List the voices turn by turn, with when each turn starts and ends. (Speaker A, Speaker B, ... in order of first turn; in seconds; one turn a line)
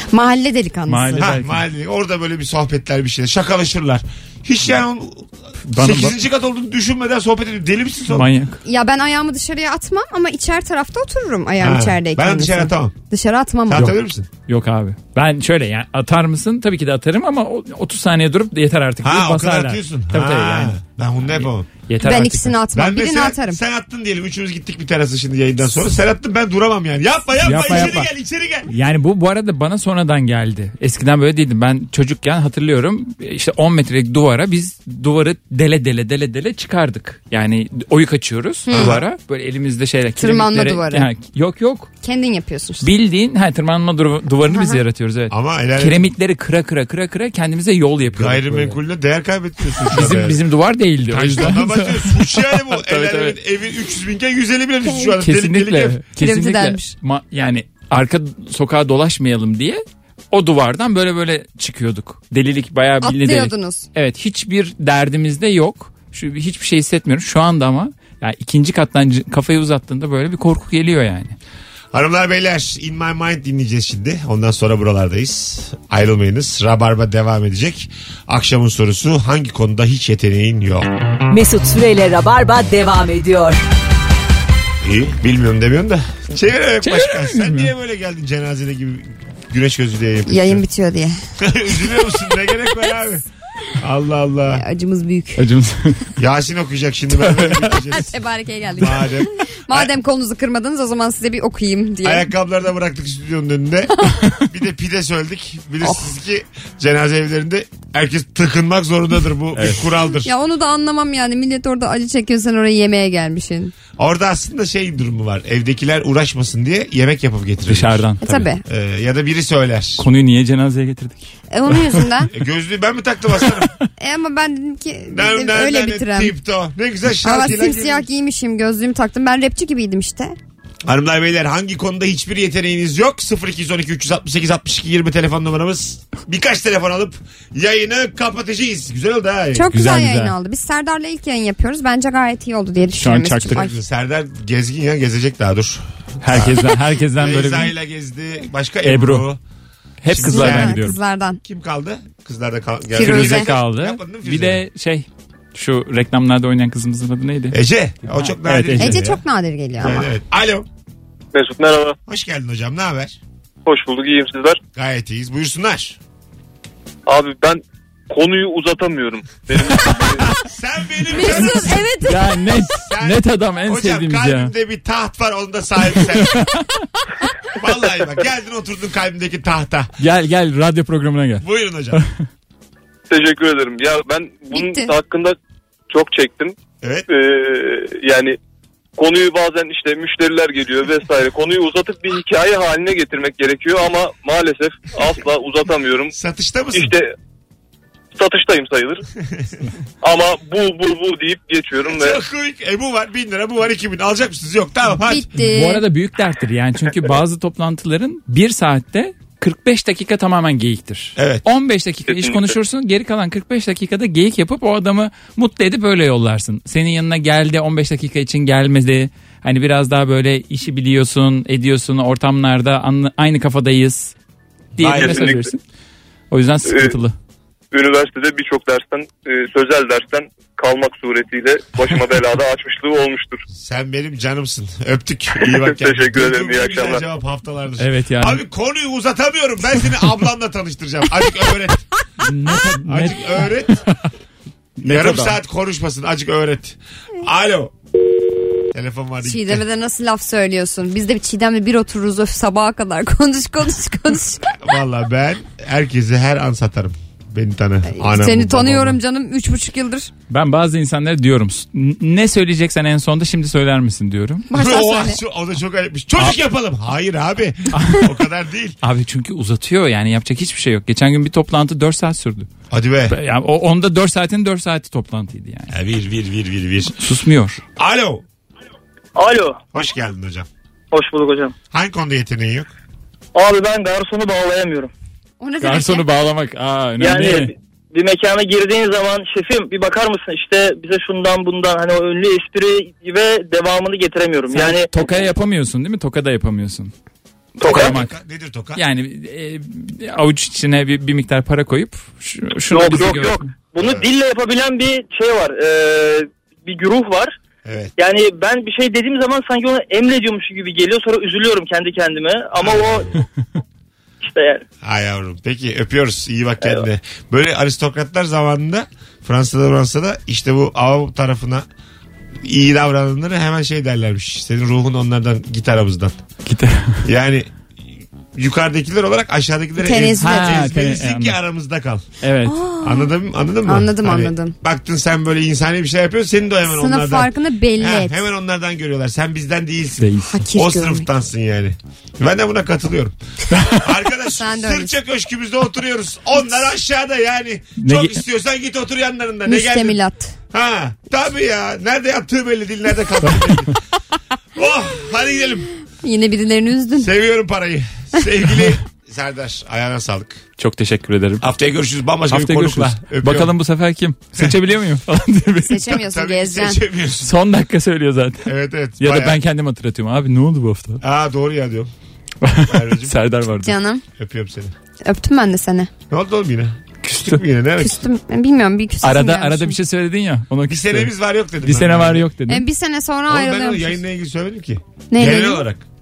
Speaker A: 0.1-1.3
Speaker B: 0.8-1.6
Speaker C: 1.1-8.3
Speaker B: 5.7-6.1
Speaker B: 8.1-8.6
Speaker A: 8.6-13.9
Speaker C: 11.6-12.9
Speaker C: 13.7-14.3
Speaker B: 14.5-22.6
Speaker C: 19.0-21.7
Speaker A: 22.0-23.6
Speaker C: 22.7-28.7
Speaker B: 27.4-28.1
Speaker B: 28.7-41.9
Speaker C: 38.7-39.0
Speaker A: 40.2-41.1
Speaker A: 42.0-42.9
Speaker B: 42.8-48.8
Speaker A: 44.5-44.8
Speaker C: 45.3-46.1
Speaker C: 48.1-50.4
Speaker B: 49.8-53.4
Speaker C: 51.0-56.0
Speaker A: 54.9-55.1
Speaker B: 55.1-71.3
Speaker A: 56.2-56.9
Speaker A: 63.0-63.9
Speaker C: 71.9-80.9
Speaker D: 81.3-83.6
Speaker C: 84.8-90.6
Speaker B: 86.8-87.7
Speaker A: 90.3-91.2
Speaker C: 91.4-93.2
Speaker A: 92.7-93.0
Speaker C: 93.8-94.6
Speaker A: 94.5-95.4
Speaker B: 95.4-96.0
Speaker C: 96.2-98.1
Speaker B: 97.2-97.7
Speaker A: 97.9-102.3
Speaker C: 98.7-99.9
Speaker C: 102.0-110.3
Speaker A: 105.8-106.1
Speaker B: 109.5-109.8
Speaker A: 110.2-113.7
Speaker C: 114.0-118.1
Speaker B: 117.7-118.5
Speaker A: 118.2-118.6
Speaker C: 118.6-120.1
Speaker B: 120.0-121.8
Speaker A: 121.5-122.3
Speaker C: 122.3-123.7
Speaker A: 124.0-126.3
Speaker C: 125.1-128.1
Speaker A: 127.2-130.3
Speaker C: 130.8-139.8
Speaker A: 139.5-143.8
Speaker B: 139.7-140.3
Speaker B: 142.9-143.7
Speaker C: 143.4-149.4
Speaker B: 146.2-147.7
Speaker B: 148.8-149.3
Speaker B: 150.0-151.0
Speaker C: 150.1-154.6
Speaker A: 150.2-151.4
Speaker A: 152.9-153.5
Speaker B: 152.9-159.0
Speaker C: 157.5-159.2
Speaker A: 158.8-160.1
Speaker C: 159.8-160.7
Speaker E: 161.3-162.0
Speaker C: 162.1-163.2
Speaker E: 163.7-164.6
Speaker C: 164.7-166.0
Speaker E: 167.1-170.2
Speaker C: 170.4-171.9
Speaker A: 171.1-172.2
Speaker B: 171.2-174.5
Speaker C: 172.7-176.4
Speaker B: 176.0-176.8
Speaker C: 177.5-179.9
Speaker B: 180.0-182.1
Speaker C: 181.4-182.0
Speaker E: 183.1-185.3
Speaker A: 184.5-184.9
Speaker E: 185.9-186.6
Speaker C: 186.8-187.1
Speaker E: 187.1-188.4
Speaker E: 189.0-196.1
Speaker C: 196.1-197.0
Speaker E: 196.7-197.1
Speaker E: 198.1-199.1
Speaker E: 200.0-202.2
Speaker C: 201.8-205.3
Speaker A: 205.0-205.8
Speaker B: 205.4-224.1
Speaker C: 211.2-211.4
Speaker E: 212.1-212.5
Speaker B: 224.7-225.6
Speaker C: 224.8-225.3
Speaker E: 224.9-225.5
Speaker B: 226.3-227.1
Speaker E: 226.6-227.0
Speaker E: 227.7-233.4
Speaker C: 233.5-241.9
Speaker E: 235.4-237.0
Speaker B: 237.8-238.4
Speaker B: 242.2-244.0
Speaker C: 242.8-243.8
Speaker B: 244.8-245.3
Speaker C: 244.8-247.7
Speaker C: 248.7-249.6
Speaker A: 249.2-254.5
Speaker C: 254.5-259.0
Speaker A: 257.8-260.1
Speaker B: 260.3-264.4
Speaker A: 264.5-265.2
Speaker C: 264.5-268.8
Speaker B: 267.7-268.1
Speaker B: 268.8-272.5
Speaker C: 272.7-273.2
Speaker B: 273.1-275.7
Speaker C: 275.7-276.9
Speaker B: 277.0-277.6
Speaker C: 277.8-278.2
Speaker F: 279.1-279.6
Speaker C: 279.7-280.5
Speaker F: 280.9-281.5
Speaker C: 281.7-282.7
Speaker F: 283.3-284.9
Speaker A: 285.4-286.1
Speaker B: 285.6-287.5
Speaker F: 287.0-294.9
Speaker B: 294.5-296.9
Speaker F: 297.6-297.9
Speaker B: 297.6-298.1
Speaker C: 297.6-298.8
Speaker B: 298.7-303.4
Speaker F: 302.7-307.3
Speaker C: 303.8-304.1
Speaker C: 307.6-307.9
Speaker F: 308.0-313.1
Speaker C: 312.6-313.1
Speaker F: 314.2-314.6
Speaker C: 314.8-321.6
Speaker C: 322.4-326.2
Speaker B: 326.4-327.0
Speaker C: 327.0-327.5
Speaker C: 328.3-332.0
Speaker A: 329.8-330.6
Speaker B: 330.2-331.4
Speaker B: 332.2-332.6
Speaker A: 332.4-333.1
Speaker C: 332.8-343.1
Speaker A: 333.6-334.5
Speaker A: 336.6-338.2
Speaker B: 340.0-340.4
Speaker A: 340.3-341.1
Speaker C: 343.7-350.0
Speaker A: 344.3-344.9
Speaker B: 347.8-348.2
Speaker A: 349.5-350.3
Speaker C: 350.5-353.8
Speaker C: 354.5-355.7
Speaker A: 356.0-357.1
Speaker C: 357.0-360.4
Speaker B: 360.6-361.4
Speaker C: 361.4-363.5
Speaker B: 362.3-365.8
Speaker A: 365.6-366.8
Speaker C: 365.7-367.3
Speaker B: 367.2-368.5
Speaker C: 368.4-369.4
Speaker B: 369.0-371.0
Speaker C: 371.0-371.9
Speaker B: 372.4-373.8
Speaker C: 372.6-373.2
Speaker A: 373.6-374.0
Speaker C: 374.2-374.7
Speaker A: 375.0-375.9
Speaker C: 376.1-378.0
Speaker B: 377.0-377.4
Speaker A: 377.8-379.8
Speaker B: 379.0-382.6
Speaker C: 380.7-382.3
Speaker A: 382.5-384.0
Speaker C: 383.3-385.9
Speaker A: 385.1-385.6